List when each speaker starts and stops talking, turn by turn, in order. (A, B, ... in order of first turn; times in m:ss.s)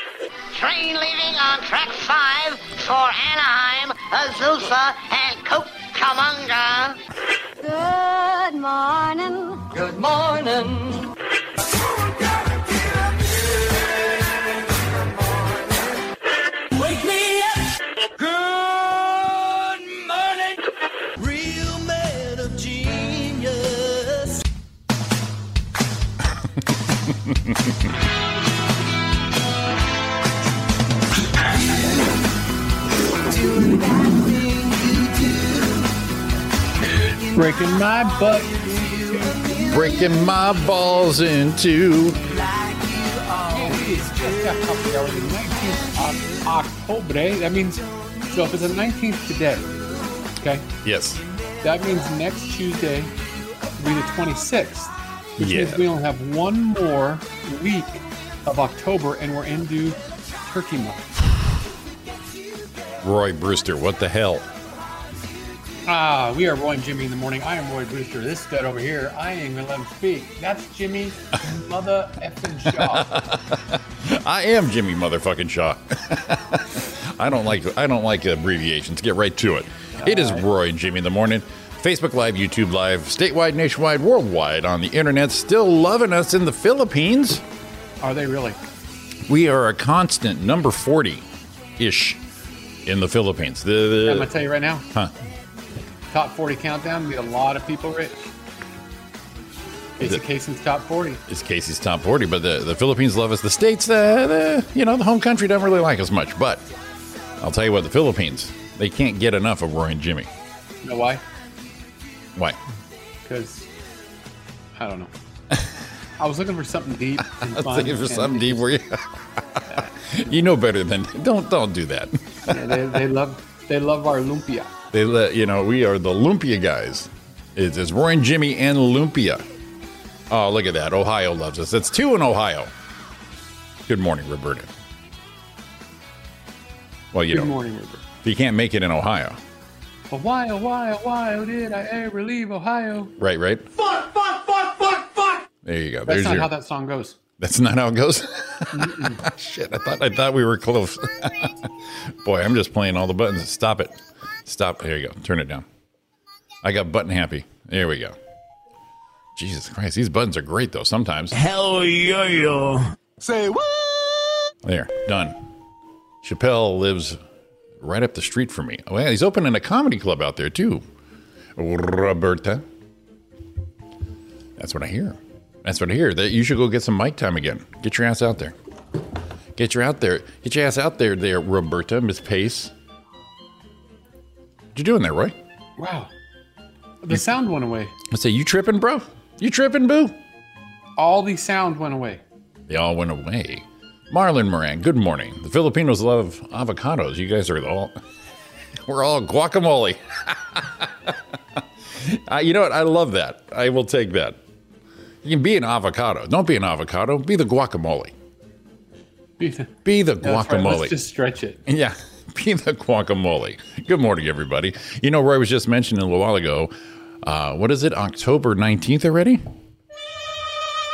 0:00.5-0:07.0 A
0:07.6-0:09.8 B
0:09.8-0:10.8 C
0:11.8-0:16.0 C
0:16.7-0:20.6 C
0:21.2-0:24.4 C
0:27.2-0:27.7 D
0:33.3-0:35.8 C
0:37.3-0:39.5 E
0:38.3-0:39.8 C
0:39.7-0:42.2 D
0:42.3-0:44.5 C
0:43.6-0:49.7 E
0:50.4-0:50.6 E
0:50.8-0:51.2 D
0:51.6-0:53.1 E
0:53.8-1:01.1 E
0:55.4-0:55.9 D
1:03.0-1:04.5 D
1:05.8-1:13.1 E
1:12.8-1:27.4 D
1:20.0-1:20.4 E
1:28.0-1:28.6 E
1:29.3-1:31.2 D
1:31.8-1:32.2 D
1:32.8-1:34.3 D
1:34.0-1:34.8 E
1:36.1-1:38.3 E
1:40.0-1:41.2 E
1:41.3-1:46.7 D
1:47.4-1:50.3 D
1:50.8-1:51.2 E
1:53.2-1:53.7 E
1:54.8-1:55.1 E
1:56.2-1:58.7 E
1:57.3-2:02.9 D
2:02.5-2:04.7 E
2:04.9-2:09.4 D
2:10.3-2:12.7 D
2:13.9-2:14.7 D
2:17.1-2:17.5 D
2:17.3-2:18.0 E
2:18.2-2:19.4 D
2:20.1-2:23.1 E
2:23.2-2:23.7 D
2:25.6-2:26.5 D
2:26.0-2:27.2 E
2:27.4-2:35.6 D
2:28.7-2:29.2 E
2:36.6-2:38.1 D
2:39.4-2:41.3 D
2:41.4-2:44.0 C
2:44.6-2:45.4 D
2:46.2-2:47.2 D
2:47.8-2:50.8 D
2:51.6-2:52.6 D
2:54.6-2:58.6 D
2:59.6-3:02.7 D
3:04.7-3:05.4 D
3:05.8-3:06.1 E
3:07.0-3:07.9 E
3:08.1-3:10.2 D
3:11.0-3:12.2 E
3:12.7-3:17.9 D
3:18.8-3:24.4 D
3:25.2-3:28.1 D
3:29.4-3:31.6 E
3:29.8-3:31.0 D
3:31.6-3:39.4 D